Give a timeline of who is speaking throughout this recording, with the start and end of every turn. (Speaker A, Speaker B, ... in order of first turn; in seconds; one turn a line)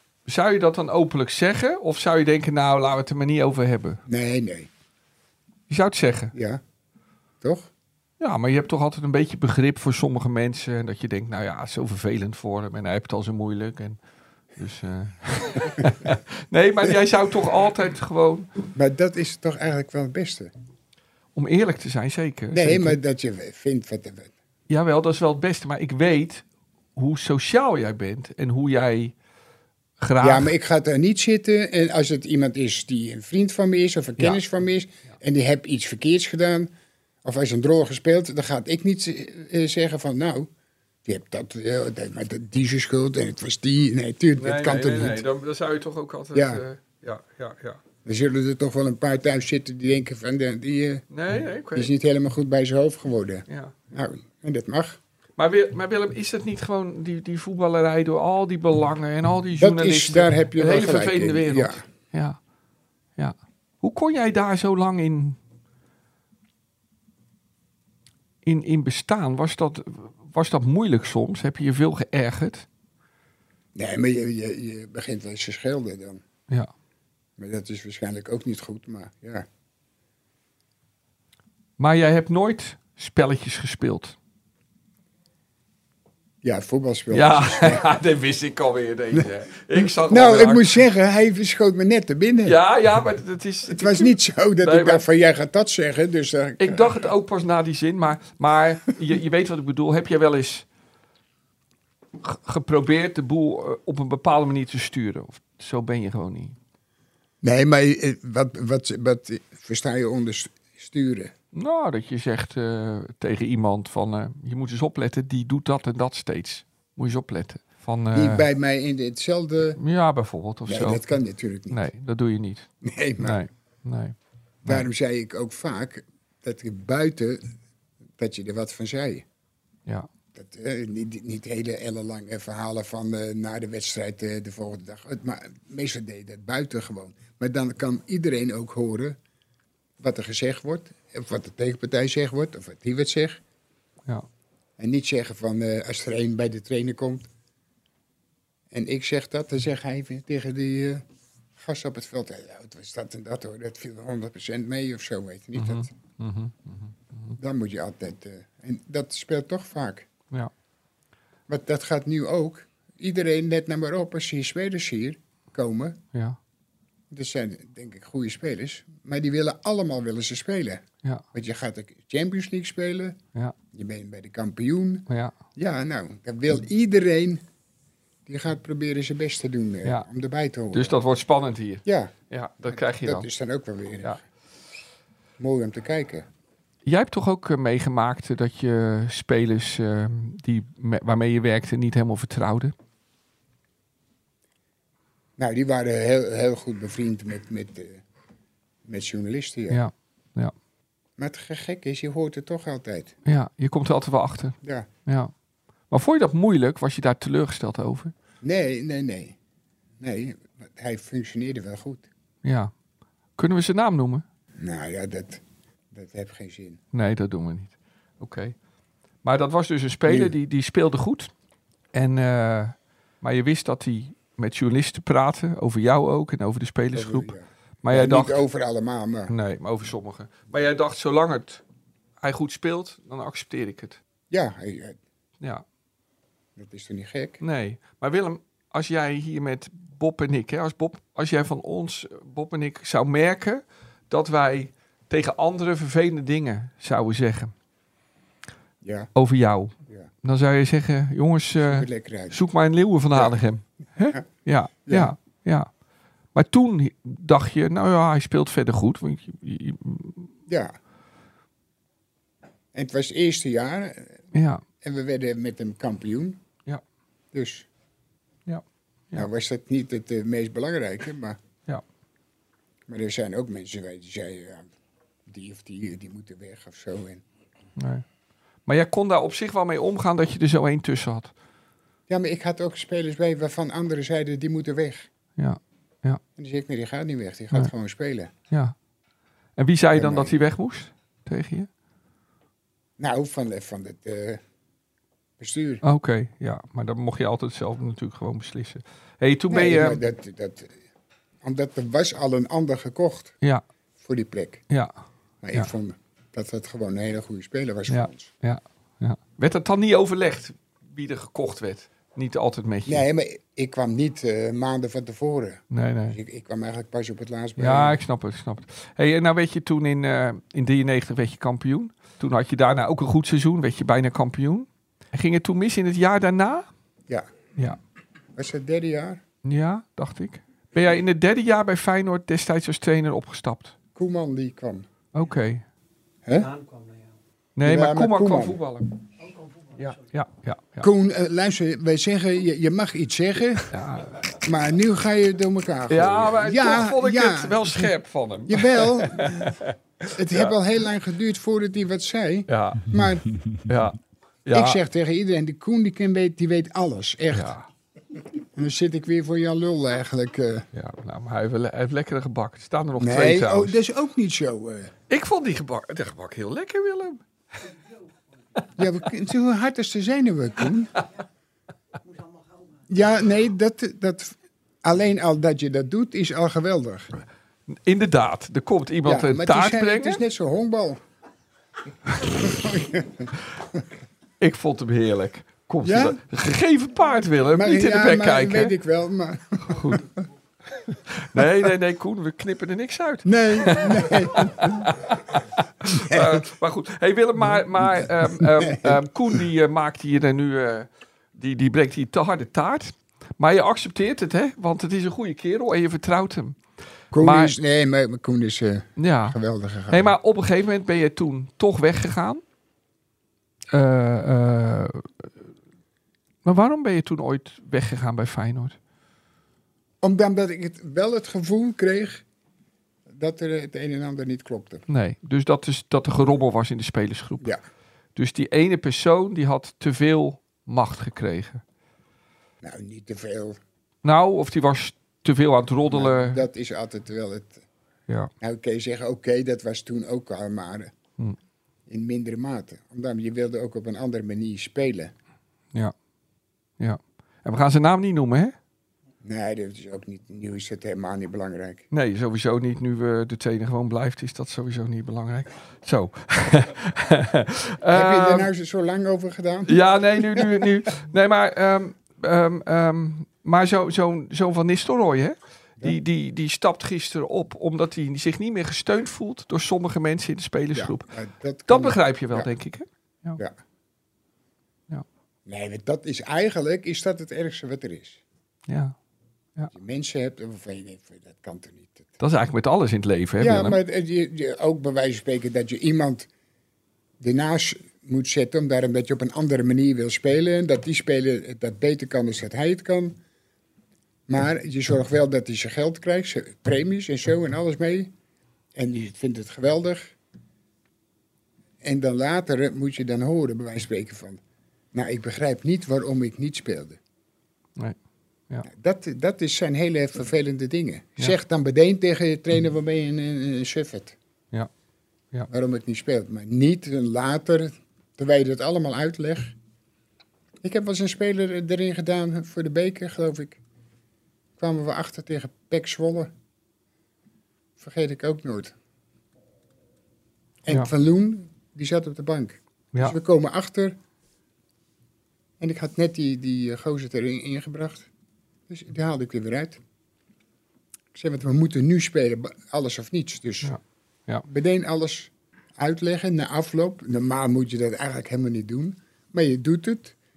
Speaker A: 0.3-4.0
Speaker B: 4.0-4.7
Speaker A: 5.7-6.3
Speaker B: 6.3-6.6
Speaker B: 7.4-7.7
Speaker A: 8.2-14.0
Speaker A: 14.6-18.5
Speaker B: 18.7-20.5
Speaker A: 21.3-23.0
Speaker B: 22.5-24.3
Speaker A: 24.7-26.4
Speaker A: 26.9-29.1
Speaker A: 30.0-30.5
Speaker B: 30.2-36.7
Speaker B: 37.2-40.5
Speaker B: 41.0-45.2
Speaker A: 44.4-47.8
Speaker B: 46.3-46.6
Speaker B: 48.0-51.0
Speaker A: 51.1-51.9
Speaker B: 51.7-55.0
Speaker A: 53.5-53.8
Speaker A: 55.4-62.4
Speaker B: 59.6-61.9
Speaker A: 63.2-65.4
Speaker A: 68.4-72.7
Speaker B: 73.7-76.2
Speaker B: 77.4-79.5
Speaker A: 81.8-84.2
Speaker B: 86.4-87.8
Speaker A: 87.1-90.8
Speaker B: 89.8-92.6
Speaker A: 92.4-95.0
Speaker B: 93.7-97.0
Speaker A: 96.6-100.6
Speaker A: 102.2-106.6
Speaker B: 107.4-111.3
Speaker A: 111.5-118.5
Speaker B: 118.1-119.8
Speaker A: 119.8-121.0
Speaker B: 120.7-121.8
Speaker A: 121.7-124.9
Speaker B: 122.8-123.4
Speaker B: 124.6-127.5
Speaker B: 128.2-129.2
Speaker B: 130.3-139.2
Speaker B: 140.0-143.4
Speaker B: 144.8-147.3
Speaker B: 148.7-151.0
Speaker B: 151.6-155.9
Speaker A: 155.5-157.4
Speaker B: 157.4-160.1
Speaker B: 161.5-166.0
Speaker A: 166.1-166.4
Speaker B: 167.1-173.2
Speaker B: 173.7-177.4
Speaker A: 175.1-175.3
Speaker B: 178.2-181.0
Speaker A: 180.7-183.3
Speaker B: 181.8-184.2
Speaker B: 185.4-186.3
Speaker A: 186.8-192.7
Speaker B: 195.4-198.0
Speaker B: 198.8-199.8
Speaker A: 199.7-200.5
Speaker B: 201.2-203.1
Speaker A: 203.2-205.3
Speaker B: 204.6-204.9
Speaker A: 205.9-208.1
Speaker B: 208.4-209.4
Speaker B: 210.0-212.1
Speaker A: 212.4-212.7
Speaker A: 213.4-214.2
Speaker B: 214.6-216.8
Speaker A: 216.9-218.5
Speaker A: 219.2-221.3
Speaker B: 220.1-220.3
Speaker A: 221.9-228.4
Speaker B: 226.9-229.3
Speaker A: 229.3-231.6
Speaker A: 232.2-234.0
Speaker B: 234.3-235.0
Speaker B: 236.6-237.4
Speaker A: 237.4-247.5
Speaker B: 248.8-249.1
Speaker A: 249.1-255.7
Speaker B: 251.6-252.4
Speaker B: 254.8-255.1
Speaker A: 256.3-260.3
Speaker B: 260.5-260.7
Speaker B: 262.7-264.2
Speaker A: 264.3-264.6
Speaker B: 264.8-266.4
Speaker B: 267.3-267.7
Speaker A: 268.5-269.3
Speaker B: 269.1-271.4
Speaker B: 272.9-274.7
Speaker B: 275.2-277.2
Speaker A: 277.8-278.0
Speaker A: 278.6-281.3
Speaker B: 282.1-285.1
Speaker A: 285.4-286.2
Speaker B: 286.4-288.3
Speaker A: 288.5-288.7
Speaker A: 289.6-291.7
Speaker B: 289.9-290.3
Speaker B: 293.0-294.4
Speaker B: 295.4-295.8
Speaker A: 295.8-300.0
Speaker B: 299.5-300.8
Speaker B: 301.4-303.4
Speaker B: 304.0-304.6
Speaker A: 304.7-304.9
Speaker B: 305.4-308.3
Speaker A: 307.9-313.0
Speaker B: 312.9-318.0
Speaker A: 315.7-316.2
Speaker A: 317.6-326.7
Speaker B: 328.3-329.2
Speaker A: 329.4-333.7
Speaker B: 333.9-334.9
Speaker A: 335.1-335.6
Speaker B: 336.2-336.5
Speaker C: 336.3-337.2
Speaker A: 337.6-338.9
Speaker B: 337.6-338.6
Speaker C: 339.2-340.1
Speaker A: 339.8-340.9
Speaker B: 340.8-343.7
Speaker A: 343.7-344.2
Speaker B: 344.3-347.9
Speaker A: 345.9-350.5
Speaker B: 348.5-349.6
Speaker B: 350.1-353.2
Speaker A: 352.5-352.9
Speaker A: 353.6-354.8
Speaker B: 354.5-357.5
Speaker A: 357.3-357.7
Speaker B: 358.5-360.7
Speaker A: 360.7-363.8
Speaker B: 363.0-364.9
Speaker A: 365.1-367.2
Speaker B: 368.8-370.9
Speaker C: 372.1-372.6
Speaker B: 372.9-377.1
Speaker A: 377.7-380.2
Speaker B: 379.0-381.0
Speaker B: 382.1-383.8
Speaker A: 384.4-388.7
Speaker B: 385.8-386.2
Speaker B: 387.5-390.0
Speaker A: 389.6-390.1
Speaker A: 390.8-406.6
Speaker B: 393.2-394.9
Speaker B: 395.9-396.4
Speaker B: 397.4-399.4
Speaker B: 407.1-410.1
Speaker A: 407.2-407.6
Speaker A: 409.0-409.4
Speaker A: 409.9-412.4
Speaker A: 413.7-415.3
Speaker A: 416.4-418.8
Speaker B: 420.0-422.2
Speaker B: 423.1-424.8
Speaker A: 424.9-427.5
Speaker A: 428.1-431.6
Speaker B: 432.6-433.6
Speaker A: 434.0-436.4
Speaker B: 435.9-437.6
Speaker B: 438.4-440.9
Speaker B: 441.9-445.1
Speaker A: 446.8-448.6
Speaker B: 449.2-451.8
Speaker A: 451.9-458.5
Speaker B: 457.9-460.7
Speaker A: 459.7-471.1
Speaker B: 470.7-472.5
Speaker A: 471.7-473.4
Speaker B: 475.4-478.2
Speaker A: 478.7-478.9
Speaker B: 479.7-482.2
Speaker A: 482.2-483.8
Speaker B: 483.4-486.3
Speaker B: 487.2-493.2
Speaker B: 494.3-498.1
Speaker B: 498.7-500.1
Speaker B: 501.8-504.4
Speaker B: 504.9-507.0
Speaker B: 508.6-514.1
Speaker B: 515.5-519.5
Speaker B: 520.6-523.6
Speaker B: 524.6-526.3
Speaker B: 527.8-528.7
Speaker B: 530.6-534.0
Speaker B: 535.6-538.1
Speaker B: 538.7-539.8
Speaker B: 541.1-543.8
Speaker A: 543.6-544.5
Speaker B: 544.4-550.1